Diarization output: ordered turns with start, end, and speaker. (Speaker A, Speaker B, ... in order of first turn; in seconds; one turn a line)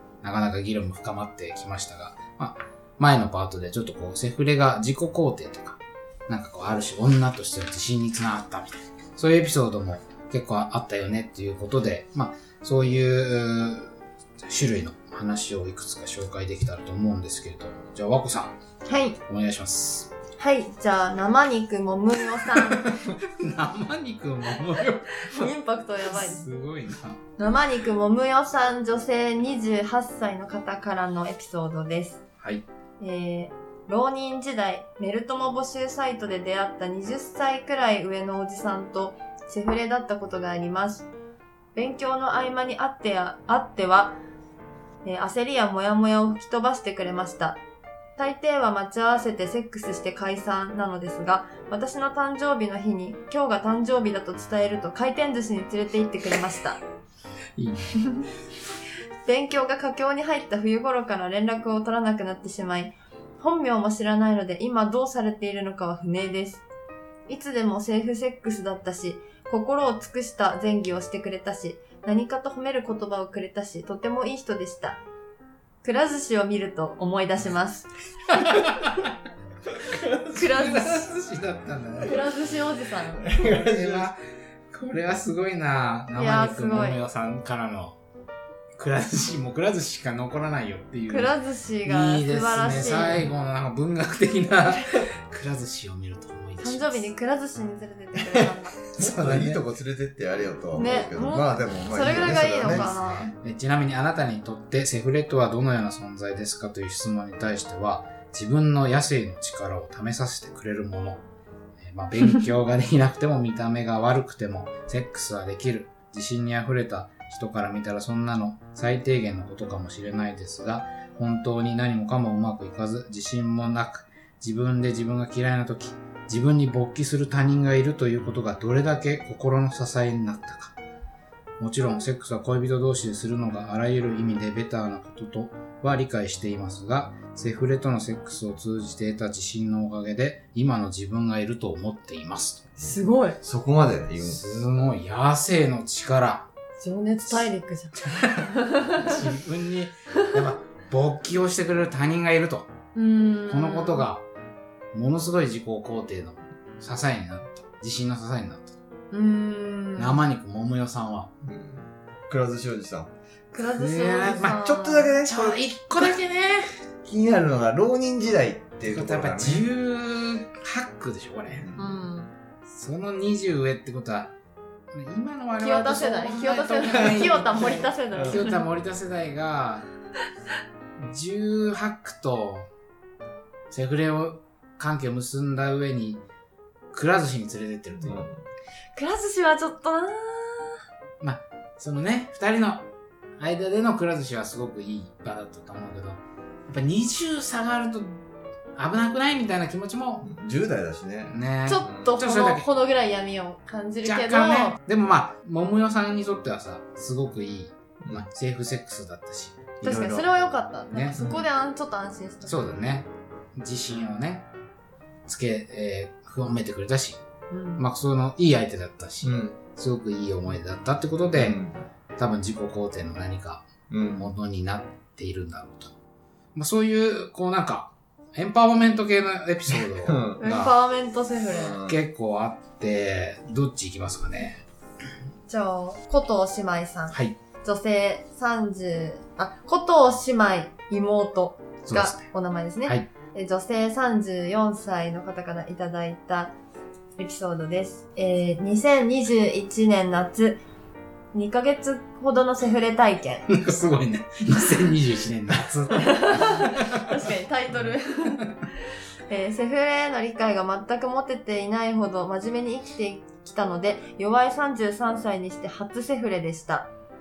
Speaker A: 0.2-18.6
Speaker B: 18.9-19.2
Speaker A: 19.3-20.1
Speaker B: 20.4-22.9
Speaker A: 22.5-25.4
Speaker B: 25.2-26.5
Speaker A: 26.1-27.2
Speaker B: 27.4-32.2
Speaker B: 33.0-41.1
Speaker B: 41.7-44.2
Speaker B: 45.0-47.6
Speaker B: 48.2-56.8
Speaker A: 57.5-58.0
Speaker B: 59.2-66.6
Speaker B: 67.3-75.0
Speaker B: 75.8-77.9
Speaker A: 78.3-79.1
Speaker A: 79.9-82.3
Speaker B: 80.3-81.0
Speaker B: 82.0-83.3
Speaker C: 83.2-84.1
Speaker A: 83.2-84.2
Speaker A: 84.7-88.0
Speaker B: 86.1-87.0
Speaker A: 88.8-91.3
Speaker B: 91.1-93.2
Speaker A: 91.8-97.1
Speaker B: 96.6-98.8
Speaker C: 98.9-102.9
Speaker A: 99.0-99.6
Speaker B: 100.7-103.3
Speaker A: 102.0-111.2
Speaker A: 111.8-130.8
Speaker A: 131.6-142.7
Speaker C: 142.8-144.4
Speaker B: 142.8-143.4
Speaker A: 144.2-146.5
Speaker B: 146.8-149.2
Speaker A: 148.8-152.7
Speaker B: 152.9-154.1
Speaker A: 153.5-154.2
Speaker A: 154.9-158.7
Speaker B: 159.1-160.2
Speaker A: 160.0-161.3
Speaker C: 161.4-163.1
Speaker B: 163.5-165.2
Speaker A: 163.6-164.6
Speaker C: 164.5-166.1
Speaker A: 165.2-166.8
Speaker C: 167.0-169.7
Speaker A: 168.8-171.7
Speaker C: 171.6-172.0
Speaker B: 171.8-172.3
Speaker A: 172.7-174.3
Speaker A: 174.9-179.9
Speaker B: 175.6-178.7
Speaker C: 178.1-178.4
Speaker A: 181.0-182.7
Speaker A: 183.7-186.2
Speaker A: 186.9-188.2
Speaker C: 188.0-188.4
Speaker B: 188.9-190.8
Speaker A: 191.2-192.9
Speaker A: 193.4-198.2
Speaker A: 198.8-200.3
Speaker C: 200.2-202.1
Speaker A: 201.3-202.6
Speaker B: 201.7-204.8
Speaker A: 204.0-210.2
Speaker B: 209.8-212.7
Speaker C: 209.8-210.2
Speaker A: 210.9-211.4
Speaker A: 212.4-214.5
Speaker A: 215.3-217.2
Speaker B: 217.5-217.8
Speaker A: 217.8-221.6
Speaker C: 219.2-219.6
Speaker C: 221.3-221.9
Speaker A: 222.2-225.9
Speaker C: 223.9-224.3
Speaker A: 226.5-230.7
Speaker C: 229.7-230.4
Speaker B: 230.4-231.8
Speaker C: 231.5-232.0
Speaker A: 231.8-234.6
Speaker B: 235.5-246.5
Speaker A: 237.1-237.3
Speaker A: 241.8-242.3
Speaker B: 247.2-250.6
Speaker B: 251.3-253.4
Speaker A: 253.5-257.0
Speaker B: 255.9-258.6
Speaker B: 259.3-266.9